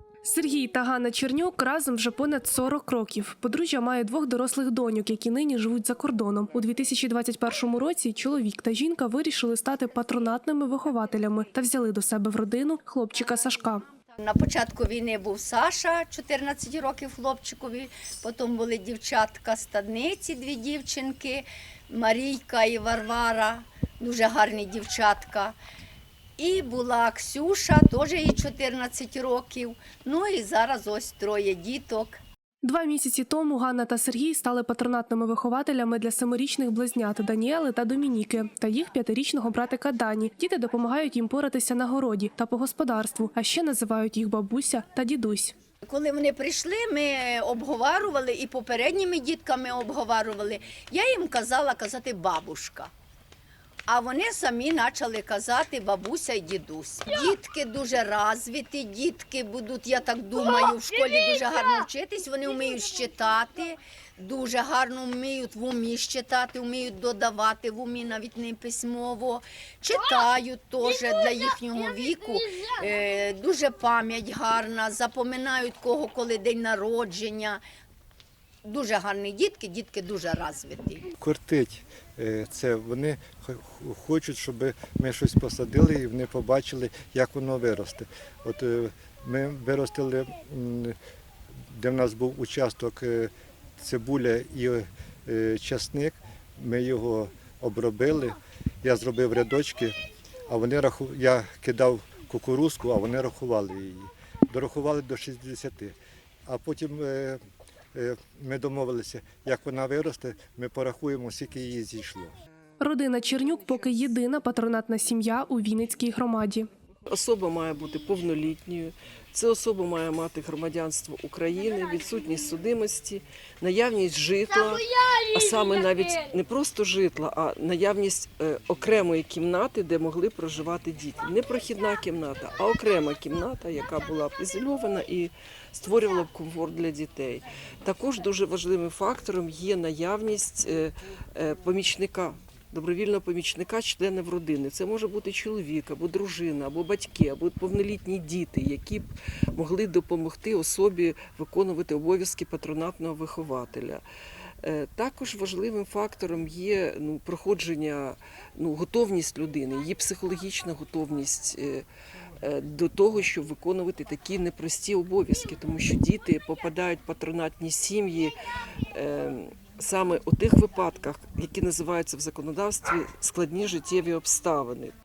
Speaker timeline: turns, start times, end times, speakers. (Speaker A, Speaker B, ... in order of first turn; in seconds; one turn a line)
Speaker A: 0.2-13.9
Speaker B: 14.2-25.6
Speaker B: 26.4-32.2
Speaker A: 32.6-45.5
Speaker B: 45.9-52.9
Speaker B: 53.9-77.6
Speaker B: 78.6-81.1
Speaker C: 81.2-91.0
Speaker C: 91.7-99.9
Speaker C: 100.5-105.9
Speaker C: 106.5-107.4
Speaker C: 107.9-112.3
Speaker A: 112.8-116.7
Speaker D: 117.1-154.0
Speaker D: 154.6-161.9
Speaker D: 162.4-168.4
Speaker D: 168.9-174.9